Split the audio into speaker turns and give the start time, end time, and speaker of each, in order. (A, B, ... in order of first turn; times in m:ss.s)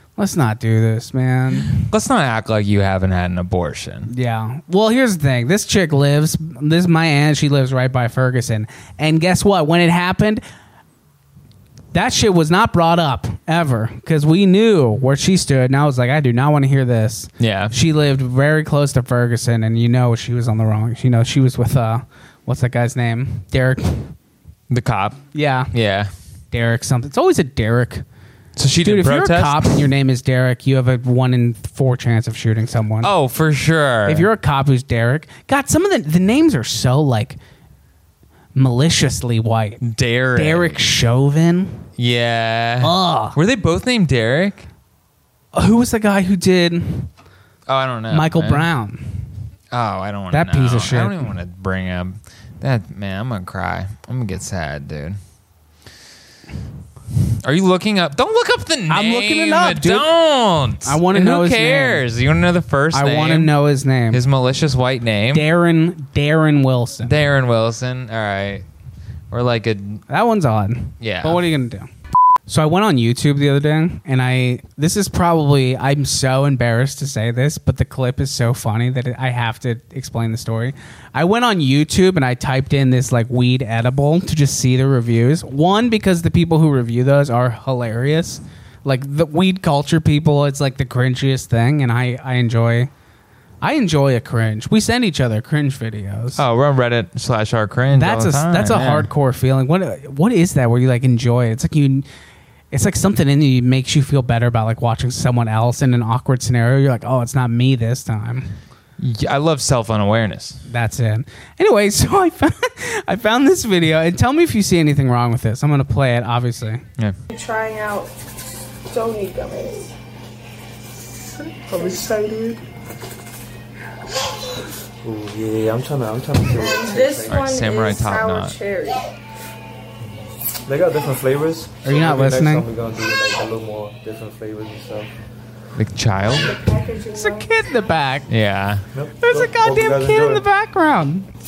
0:00.2-0:01.9 A
0:01.6-0:04.1 B
0:04.1-0:10.4 A
0:11.9-0:24.2 A
0:17.4-0:17.7 B
0:24.7-0:26.1 B
0:25.3-0:25.7 A
0:26.5-0:28.0 A
0:28.6-0:29.8 B
0:28.8-0:33.1 A
0:33.0-0:34.3 B
0:34.1-0:37.4 A
0:38.6-0:39.8 A
0:39.8-0:40.8 B
0:40.4-0:41.8 A
0:42.0-0:44.7 B
0:42.8-0:43.4 A
0:45.5-0:47.1 A
0:47.7-0:48.7 B
0:48.1-0:49.3 A
0:49.7-0:55.2 B
0:50.3-0:51.3 A
0:57.4-1:03.5 B
0:58.9-1:00.1 A
1:00.8-1:02.0 A
1:02.9-1:04.2 A
1:04.1-1:05.5 B
1:05.3-1:07.2 A
1:07.0-1:08.6 B
1:09.3-1:10.0 B
1:10.1-1:11.9 A
1:11.0-1:11.4 B
1:12.5-1:32.9 A
1:33.6-1:36.4 A
1:36.4-1:39.1 B
1:37.9-1:42.1 A
1:42.7-1:48.5 A
1:49.0-1:50.6 B
1:50.7-1:56.8 A
1:57.3-1:58.1 C
1:58.9-1:59.9 C
2:01.7-2:02.6 D
2:01.7-2:02.1 C
2:05.0-2:07.4 D
2:06.5-2:09.1 C
2:07.3-2:08.6 B
2:10.7-2:15.1 D
2:11.8-2:12.7 A
2:15.8-2:16.5 B
2:16.3-2:17.5 C
2:17.2-2:18.3 A
2:18.3-2:18.8 B
2:18.9-2:20.5 D
2:19.2-2:21.3 A